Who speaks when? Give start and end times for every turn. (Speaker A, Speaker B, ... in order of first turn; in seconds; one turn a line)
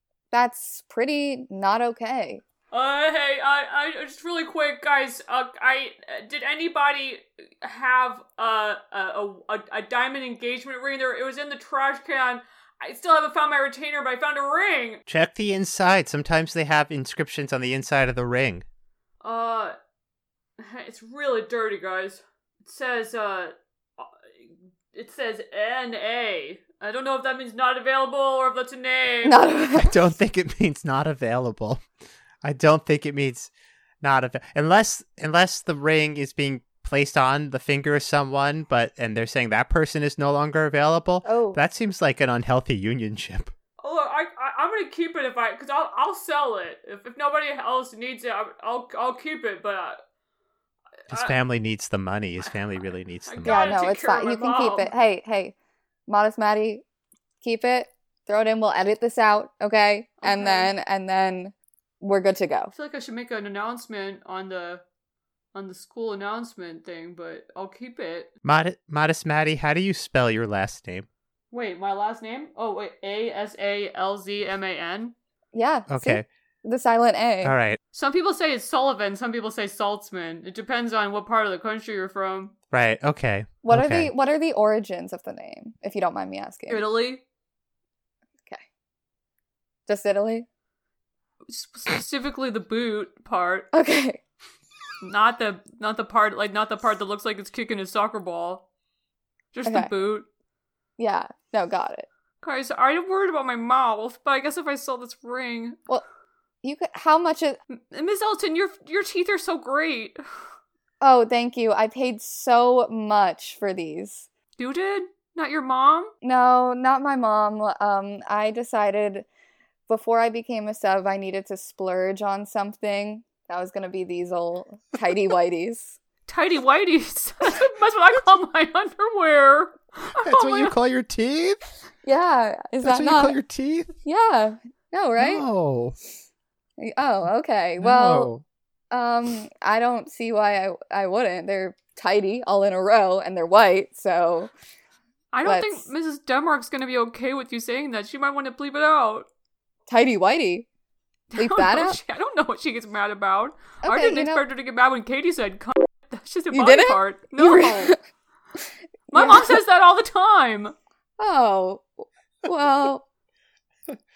Speaker A: 0.3-2.4
Speaker B: 2.7-15.0
Speaker C: 15.1-18.6
Speaker B: 19.2-19.8
Speaker B: 20.6-24.1
Speaker B: 24.9-29.4
Speaker A: 29.2-30.1
Speaker C: 29.8-31.8
Speaker C: 32.4-33.5
Speaker C: 34.0-43.5
Speaker A: 41.2-41.6
Speaker B: 43.8-50.0
Speaker B: 51.1-51.3
Speaker C: 51.1-53.7
Speaker B: 53.3-54.9
Speaker A: 53.5-55.5
Speaker A: 56.1-56.8
Speaker A: 57.4-62.7
Speaker B: 60.2-60.7
Speaker B: 62.7-64.8
Speaker B: 65.5-68.3
Speaker C: 68.4-71.1
Speaker B: 71.5-75.2
Speaker A: 75.5-77.5
Speaker C: 75.9-76.3
Speaker C: 77.4-77.8
Speaker B: 77.9-82.5
Speaker C: 82.7-84.1
Speaker A: 83.6-86.8
Speaker B: 86.7-87.2
Speaker A: 89.9-90.5
Speaker B: 91.5-93.7
Speaker A: 93.7-94.2
Speaker B: 95.0-98.7
Speaker B: 99.5-100.3
Speaker A: 99.7-99.9
Speaker A: 101.0-102.1
Speaker B: 102.4-105.8
Speaker A: 106.6-107.6
Speaker B: 107.7-110.2
Speaker A: 111.0-114.3
Speaker B: 114.6-116.1
Speaker A: 116.2-119.3
Speaker A: 119.9-126.0
Speaker B: 126.3-130.8
Speaker C: 130.2-131.6
Speaker A: 132.0-133.4
Speaker C: 132.8-133.9
Speaker A: 134.0-135.4
Speaker C: 135.2-135.9
Speaker A: 136.8-138.3
Speaker C: 137.8-138.4
Speaker A: 138.9-144.5
Speaker B: 145.3-149.3
Speaker A: 145.4-145.9
Speaker A: 149.9-150.7
Speaker B: 151.3-157.9
Speaker A: 151.4-152.0
Speaker A: 153.8-154.4
Speaker A: 156.5-158.0
Speaker A: 159.1-159.6
Speaker B: 159.1-160.8
Speaker A: 161.2-161.9
Speaker A: 162.4-163.1